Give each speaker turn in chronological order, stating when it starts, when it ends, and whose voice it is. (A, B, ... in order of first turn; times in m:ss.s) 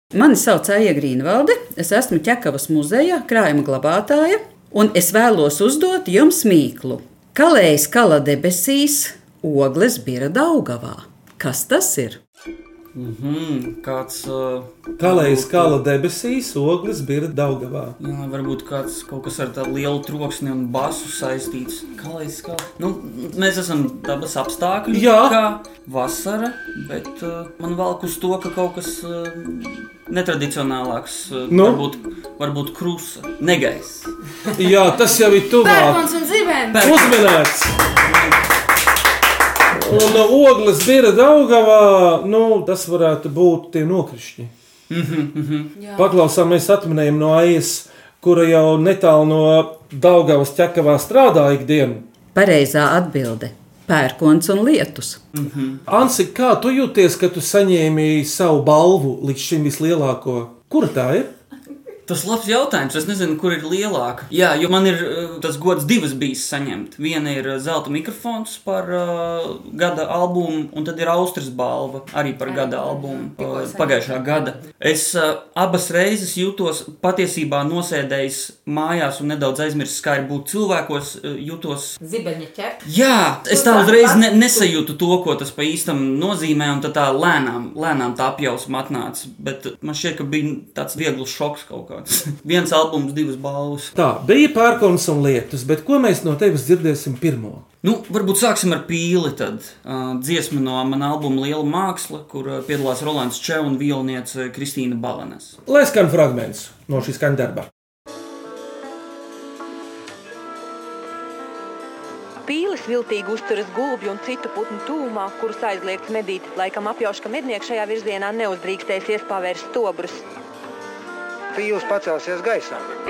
0:00.1-0:12.2 A
0:12.9-0:15.8 B
0:15.0-0:18.0 C
0:18.0-0:34.1 B
0:24.9-0:25.4 C
0:31.5-0:31.8 C
0:34.6-0:36.0 C
0:35.6-0:37.1 D
0:36.7-0:37.2 B
0:36.8-0:37.7 C
0:38.0-0:38.4 B
0:39.7-0:44.5 C
0:44.9-0:45.7 B
0:45.7-0:46.1 D
0:46.0-0:52.0 C
0:52.3-0:55.2 A
0:55.3-0:55.8 B
0:55.9-1:01.3 C
1:02.1-1:22.0 B
1:12.4-1:14.5 D
1:22.0-1:22.7 A
1:22.8-1:33.9 B
1:23.5-1:24.2 A
1:33.9-1:37.6 C
1:37.8-1:45.6 B
1:45.6-1:47.7 C
1:52.4-2:00.2 E
2:02.0-2:02.5 C